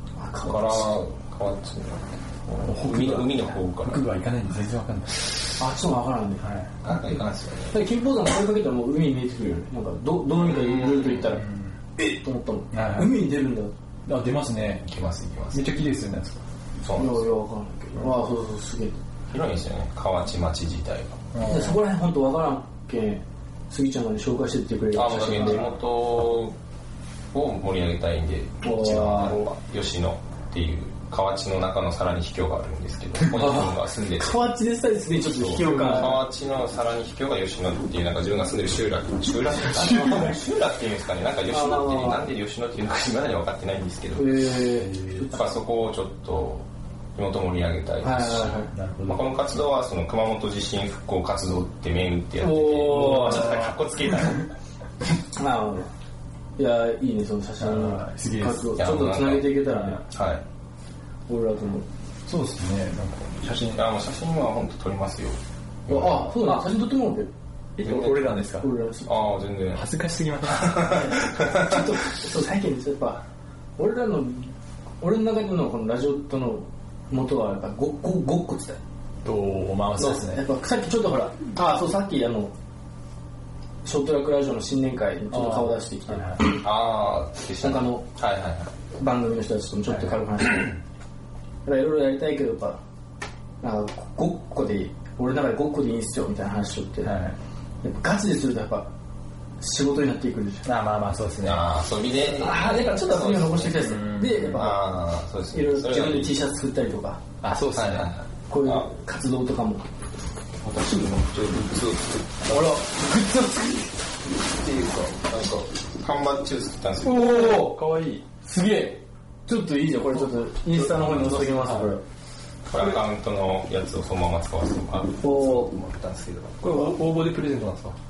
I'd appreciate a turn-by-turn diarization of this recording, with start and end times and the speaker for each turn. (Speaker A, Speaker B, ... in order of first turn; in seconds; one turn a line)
Speaker A: 0.2-1.0
Speaker B: 0.5-2.1
Speaker C: 2.6-5.5
Speaker B: 2.8-4.1
Speaker A: 5.6-6.4
Speaker C: 6.4-6.8
Speaker B: 6.8-7.9
Speaker A: 7.7-11.4
Speaker B: 10.4-11.3
Speaker C: 11.2-11.8
Speaker A: 12.0-13.7
Speaker C: 12.7-13.1
Speaker C: 14.1-14.8
Speaker B: 14.8-15.8
Speaker C: 15.5-16.4
Speaker B: 16.8-17.3
Speaker A: 16.9-19.0
Speaker B: 19.3-21.3
Speaker C: 21.3-21.8
Speaker A: 21.4-25.7
Speaker B: 24.9-26.6
Speaker C: 25.3-25.6
Speaker B: 27.3-34.4
Speaker A: 28.6-29.4
Speaker A: 33.3-36.2
Speaker B: 35.2-44.4
Speaker C: 35.4-36.2
Speaker C: 39.8-40.4
Speaker A: 39.8-40.4
Speaker A: 41.5-42.3
Speaker A: 44.1-45.4
Speaker C: 44.6-45.3
Speaker B: 45.3-54.5
Speaker A: 48.0-48.7
Speaker C: 48.7-49.2
Speaker A: 52.4-53.6
Speaker C: 53.0-53.7
Speaker A: 55.4-55.9
Speaker A: 56.6-60.0
Speaker C: 57.6-58.7
Speaker B: 58.7-60.4
Speaker C: 59.7-60.0
Speaker A: 61.3-61.9
Speaker C: 62.3-63.8
Speaker B: 63.7-66.3
Speaker A: 65.9-67.3
Speaker C: 67.8-68.7
Speaker B: 67.8-68.3
Speaker A: 68.5-69.1
Speaker B: 69.1-69.8
Speaker C: 69.7-71.0
Speaker B: 70.5-71.9
Speaker A: 71.5-73.2
Speaker A: 73.8-78.8
Speaker C: 79.2-80.4
Speaker A: 80.0-82.5
Speaker A: 83.8-86.6
Speaker C: 85.3-86.4
Speaker B: 86.6-88.7
Speaker A: 87.6-88.1
Speaker A: 89.0-90.8
Speaker C: 89.9-90.2
Speaker A: 91.7-92.8
Speaker A: 93.6-97.1
Speaker C: 97.0-97.4
Speaker A: 97.8-98.9
Speaker A: 99.6-100.7
Speaker C: 100.6-101.6
Speaker B: 101.4-103.8
Speaker A: 102.3-104.9
Speaker C: 103.7-104.7
Speaker B: 104.5-106.4
Speaker A: 105.5-107.2
Speaker C: 107.4-108.1
Speaker B: 107.7-108.9
Speaker A: 108.5-109.9
Speaker B: 110.6-112.8
Speaker A: 112.5-114.0
Speaker B: 115.2-117.6
Speaker A: 117.0-117.8
Speaker C: 117.1-118.2
Speaker A: 118.4-122.0
Speaker C: 120.5-122.0
Speaker B: 122.7-126.9
Speaker A: 125.2-125.7
Speaker C: 126.6-128.0